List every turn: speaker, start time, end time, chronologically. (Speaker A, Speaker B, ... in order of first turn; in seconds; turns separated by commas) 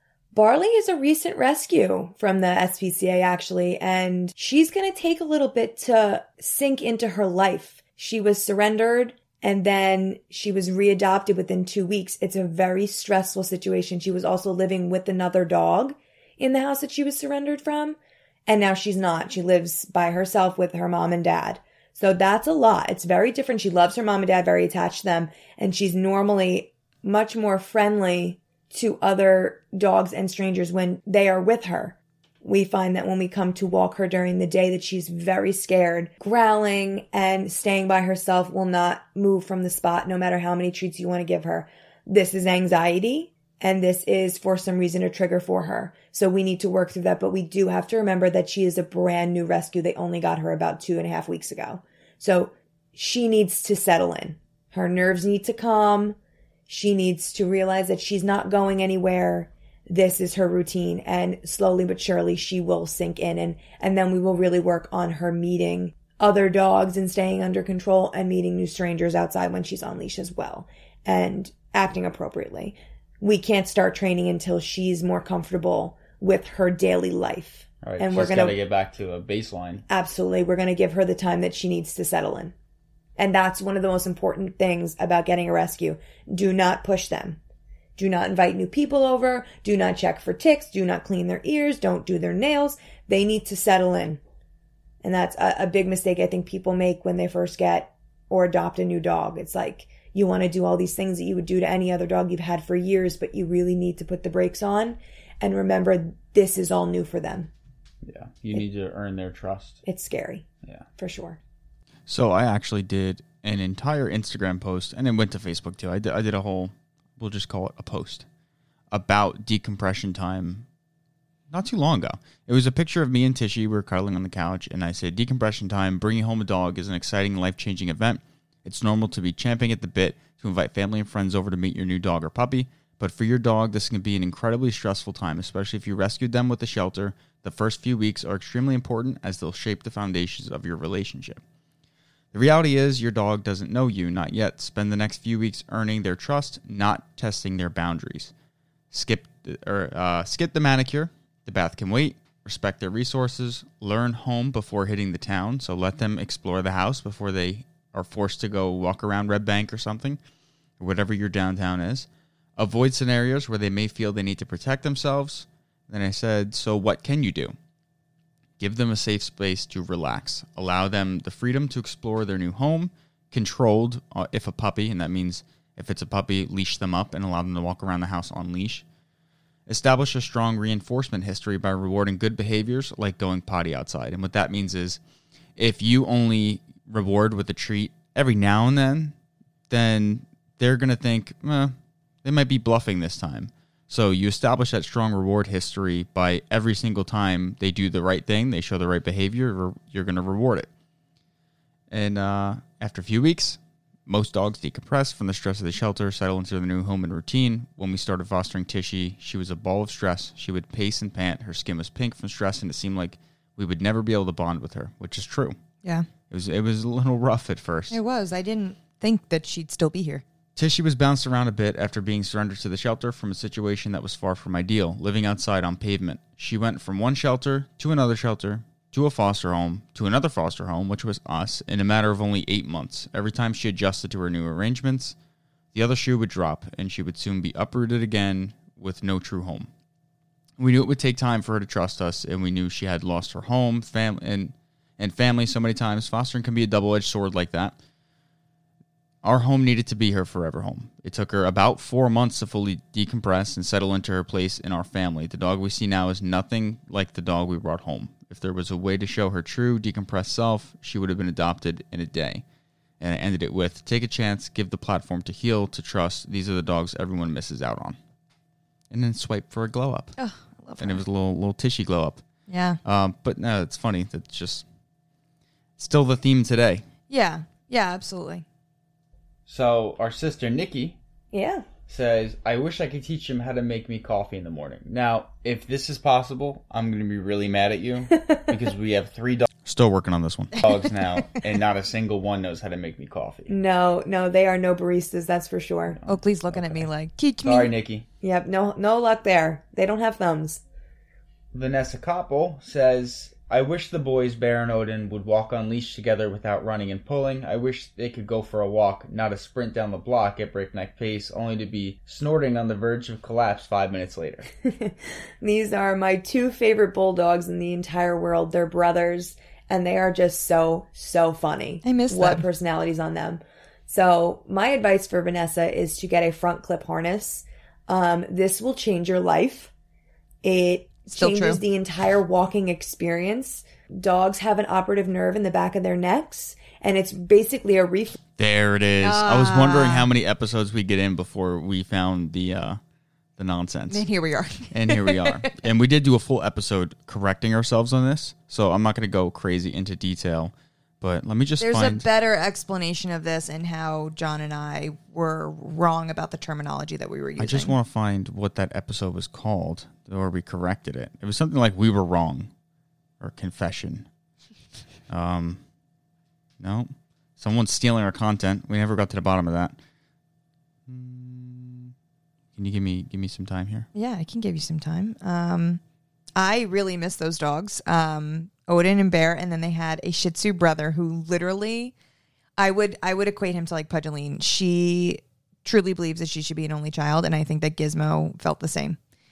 Speaker A: 0.3-56.1, Speaker A: 56.7-78.6, Speaker B: 77.8-79.8, Speaker A: 79.9-82.5, Speaker A: 83.2-87.4, Speaker A: 88.0-94.2, Speaker A: 95.0-107.5, Speaker B: 108.0-109.8, Speaker A: 109.8-110.5, Speaker A: 111.0-111.4, Speaker C: 112.1-118.2, Speaker C: 118.9-120.7, Speaker C: 121.5-141.4, Speaker C: 142.3-148.3, Speaker C: 148.9-160.2, Speaker C: 160.8-167.5, Speaker C: 168.6-178.8, Speaker C: 179.7-185.0, Speaker C: 185.6-189.1, Speaker C: 189.7-200.7, Speaker C: 201.9-215.6, Speaker C: 216.3-218.0, Speaker D: 217.9-220.2, Speaker C: 220.6-235.2, Speaker C: 235.7-239.7, Speaker C: 240.6-247.8, Speaker C: 249.2-262.4, Speaker C: 263.0-268.0, Speaker C: 268.9-270.1, Speaker D: 270.2-271.0, Speaker C: 270.8-272.2, Speaker D: 272.5-272.8, Speaker C: 272.8-274.6, Speaker C: 275.8-276.9, Speaker D: 277.1-278.4, Speaker B: 279.5-281.0, Speaker A: 281.3-281.6, Speaker B: 281.9-289.5, Speaker C: 289.6-290.6, Speaker B: 290.5-293.5, Speaker A: 293.5-296.0, Speaker B: 295.9-296.9, Speaker D: 296.1-297.7, Speaker B: 297.4-298.1, Speaker A: 298.2-300.6, Speaker B: 301.5-314.5, Speaker A: 314.6-329.7, Speaker D: 321.8-322.5, Speaker A: 330.4-338.2, Speaker D: 331.1-331.6, Speaker C: 338.4-342.8, Speaker D: 339.0-340.1, Speaker C: 343.4-344.0, Speaker D: 343.9-345.5, Speaker C: 344.7-352.1, Speaker D: 351.6-357.8, Speaker C: 357.4-362.5, Speaker C: 363.2-364.1, Speaker C: 365.1-365.6, Speaker C: 366.6-369.8, Speaker C: 370.9-371.9, Speaker C: 372.5-373.9, Speaker D: 373.9-375.8, Speaker D: 376.4-381.9, Speaker D: 382.6-389.0